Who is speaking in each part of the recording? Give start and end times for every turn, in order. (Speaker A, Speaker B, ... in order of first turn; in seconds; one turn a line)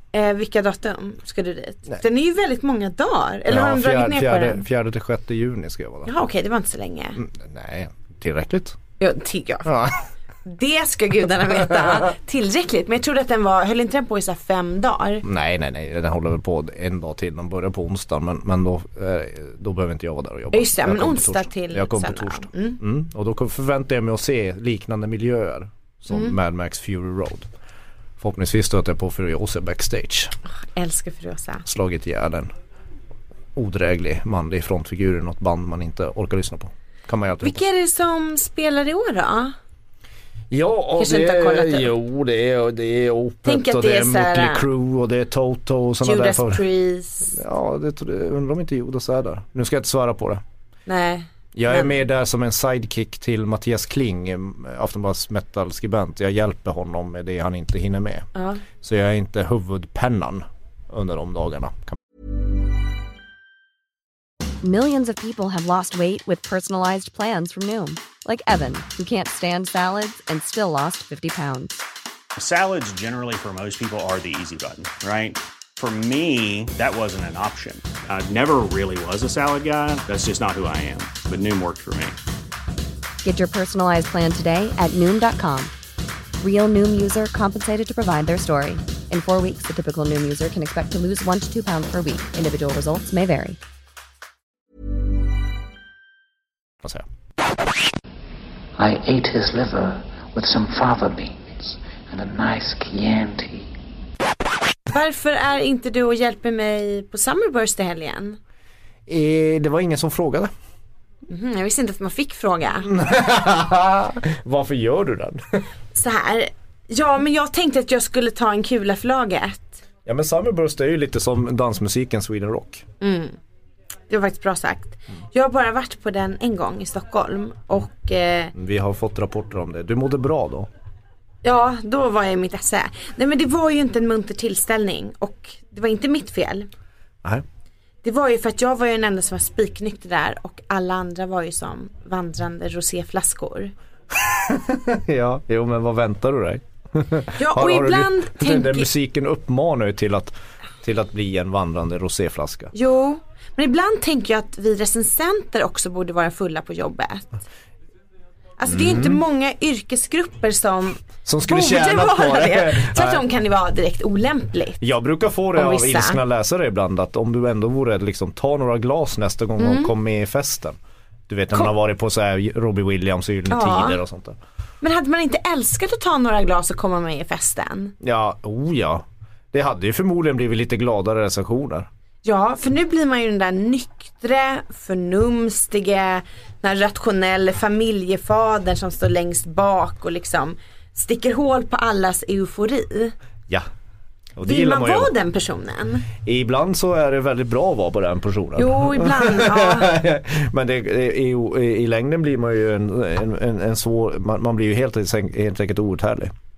Speaker A: 0.1-4.6
Speaker B: 3.5-6.1
Speaker A: 6.0-7.2
Speaker B: 7.2-8.8
Speaker A: 9.0-9.7
Speaker B: 9.7-10.0
Speaker A: 10.4-15.2
Speaker B: 15.2-27.5
Speaker A: 20.5-22.8
Speaker B: 28.2-30.3
Speaker A: 30.7-31.6
Speaker B: 31.6-32.5
Speaker B: 33.5-37.6
Speaker A: 37.4-39.5
Speaker B: 40.5-46.6
Speaker A: 41.0-41.9
Speaker A: 43.4-44.6
Speaker A: 46.0-47.4
Speaker B: 47.3-50.4
Speaker A: 50.9-51.9
Speaker B: 51.5-62.0
Speaker A: 58.3-58.6
Speaker C: 64.6-71.8
Speaker D: 72.3-82.2
Speaker C: 83.2-85.7
Speaker C: 86.4-93.6
Speaker E: 98.8-103.7
Speaker A: 104.9-108.4
Speaker B: 109.1-110.5
Speaker A: 111.3-112.9
Speaker B: 112.8-115.6
Speaker A: 115.9-119.8
Speaker B: 120.0-122.8
Speaker A: 123.0-123.4
Speaker A: 124.1-128.5
Speaker B: 128.5-130.7
Speaker A: 131.4-136.7
Speaker A: 138.0-143.7
Speaker B: 144.1-152.7
Speaker A: 147.3-148.9
Speaker A: 152.7-157.4
Speaker A: 158.6-164.8
Speaker B: 158.7-159.2
Speaker B: 161.2-163.2
Speaker B: 164.8-170.8
Speaker A: 165.5-166.2
Speaker A: 169.6-169.9
Speaker B: 171.3-174.4
Speaker A: 173.5-174.0
Speaker A: 174.8-177.9
Speaker B: 178.0-181.9
Speaker A: 182.2-193.1
Speaker B: 194.4-195.1
Speaker A: 194.4-196.1
Speaker B: 196.1-206.3
Speaker A: 198.6-199.9